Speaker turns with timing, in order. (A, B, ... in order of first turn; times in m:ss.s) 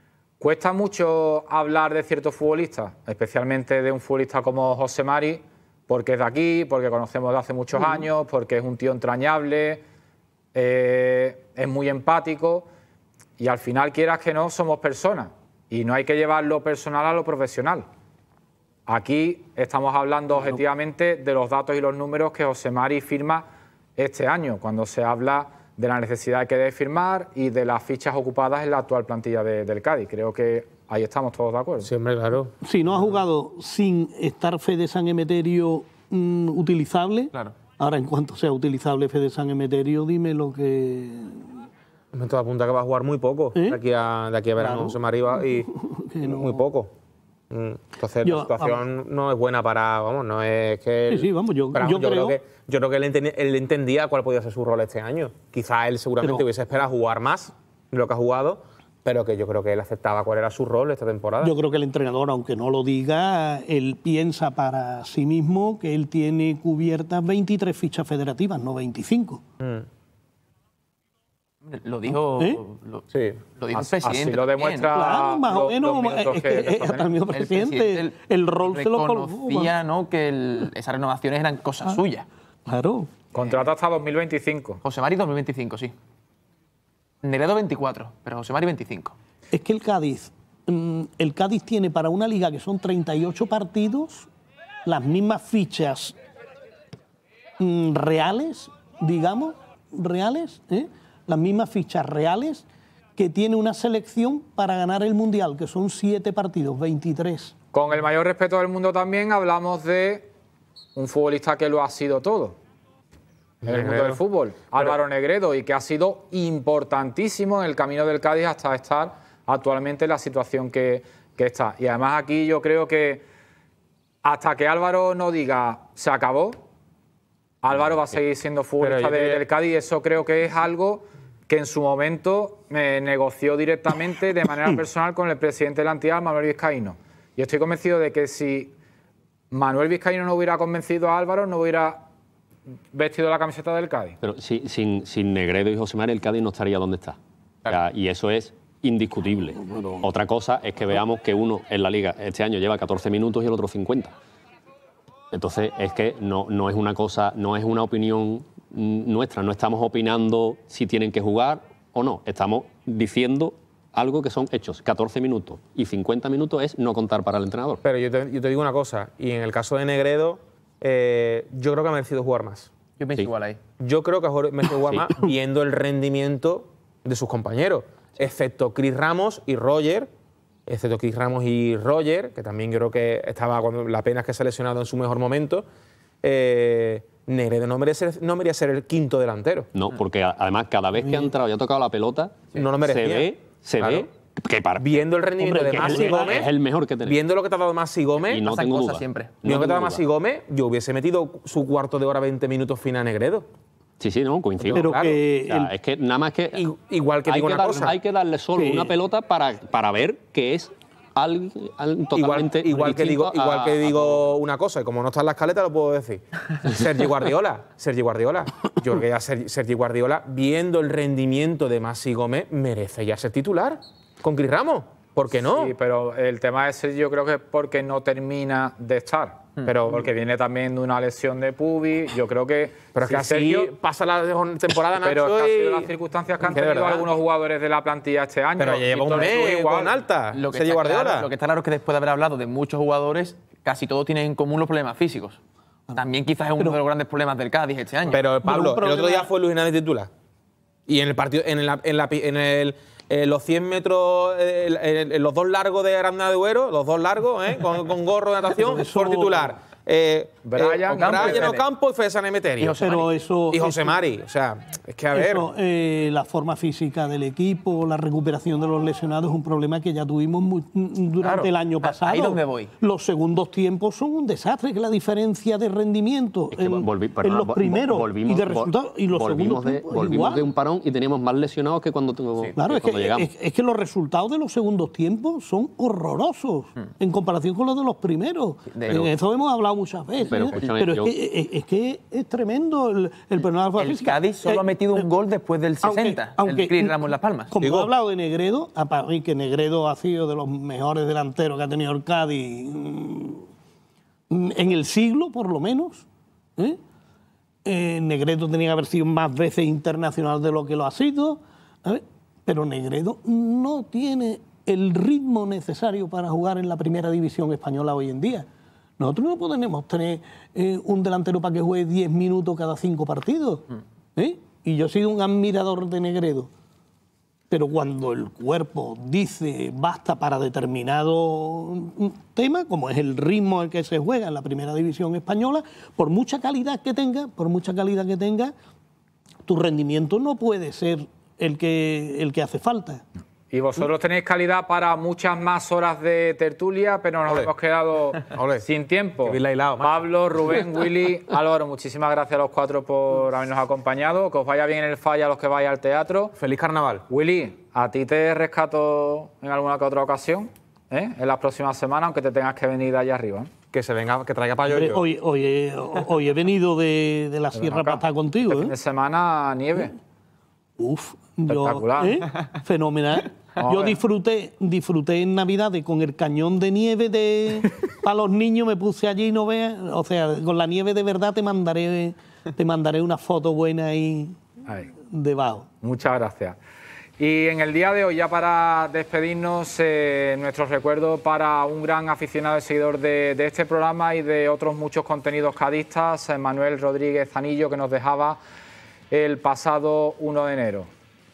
0:00.4-0:09.8 A
0:10.5-0:12.7 A
0:13.4-0:17.8 A
0:18.9-0:23.4 A
0:24.0-0:31.9 A
0:31.8-0:32.5 B
0:32.6-0:41.5 C
0:42.1-0:46.9 B
0:44.6-0:46.6 C
0:47.5-1:01.5 B
0:48.2-0:48.8 C
0:51.1-0:52.4 C
1:01.4-1:09.4 C
1:09.6-1:09.8 B
1:11.6-1:13.0 D
1:13.1-1:13.4 B
1:13.6-1:14.9 D
1:13.7-1:17.1 A
1:14.9-1:19.7 C
1:17.3-1:22.2 D
1:22.7-1:23.1 C
1:23.3-1:24.8 A
1:24.8-1:25.9 D
1:27.2-1:29.1 D
1:29.5-1:34.3 C
1:34.8-1:36.2 C
1:37.6-1:42.6 C
1:43.2-1:47.5 C
1:47.7-1:50.3 A
1:50.9-1:52.6 A
1:53.6-1:54.2 B
1:53.6-2:03.2 A
2:04.2-2:06.6 A
2:07.6-2:18.7 A
2:08.8-2:09.4 B
2:19.5-2:22.0 A
2:22.9-2:24.2 A
2:24.2-2:34.1 E
2:35.3-2:47.8 E
2:47.8-2:52.7 B
2:53.0-2:53.6 D
2:53.8-3:00.1 B
3:00.7-3:05.6 B
3:06.2-3:09.7 B
3:09.7-3:15.0 E
3:12.5-3:14.1 B
3:14.8-3:16.5 B
3:15.4-3:16.4 C
3:15.6-3:17.2 E
3:17.0-3:18.5 B
3:18.2-3:20.0 E
3:18.4-3:19.4 D
3:19.4-3:23.4 B
3:24.0-3:26.6 E
3:24.6-3:25.2 B
3:24.7-3:25.7 C
3:26.5-3:28.0 B
3:27.2-3:34.3 E
3:28.6-3:28.9 C
3:32.1-3:45.7 B
3:45.6-3:53.7 A
3:49.6-3:50.0 B
3:52.9-3:55.9 B
3:55.0-3:59.9 A
3:56.5-3:57.1 B
3:58.6-4:01.3 B
4:00.3-4:05.4 D
4:05.9-4:08.2 D
4:08.1-4:10.1 B
4:08.4-4:09.3 C
4:10.9-4:22.8 B
4:18.6-4:19.5 C
4:20.4-4:21.5 A
4:21.0-4:21.6 D
4:22.6-4:23.1 D
4:22.8-4:24.0 C
4:23.5-4:25.5 B
4:25.1-4:40.4 C
4:31.2-4:32.7 D
4:36.5-4:43.3 E
4:42.6-4:55.0 C
4:48.7-4:49.1 D
4:50.2-4:51.1 E
4:53.8-4:57.5 D
4:55.8-4:57.0 C
4:57.5-5:03.4 C
4:57.6-4:57.9 B
5:04.3-5:06.0 C
5:07.6-5:18.5 C
5:19.0-5:26.5 C
5:27.5-5:38.5 C
5:39.4-5:43.0 C
5:43.5-5:56.3 A
5:48.2-5:48.6 B
5:49.2-5:50.0 B
5:56.4-5:57.0 B
5:57.1-6:03.5 A
6:03.7-6:05.0 B
6:04.7-6:08.7 C
6:07.5-6:09.9 A
6:10.8-6:24.3 C
6:11.5-6:12.3 A
6:13.6-6:14.0 A
6:25.1-6:25.7 C
6:25.8-6:26.6 A
6:27.2-6:38.4 A
6:39.1-6:40.9 A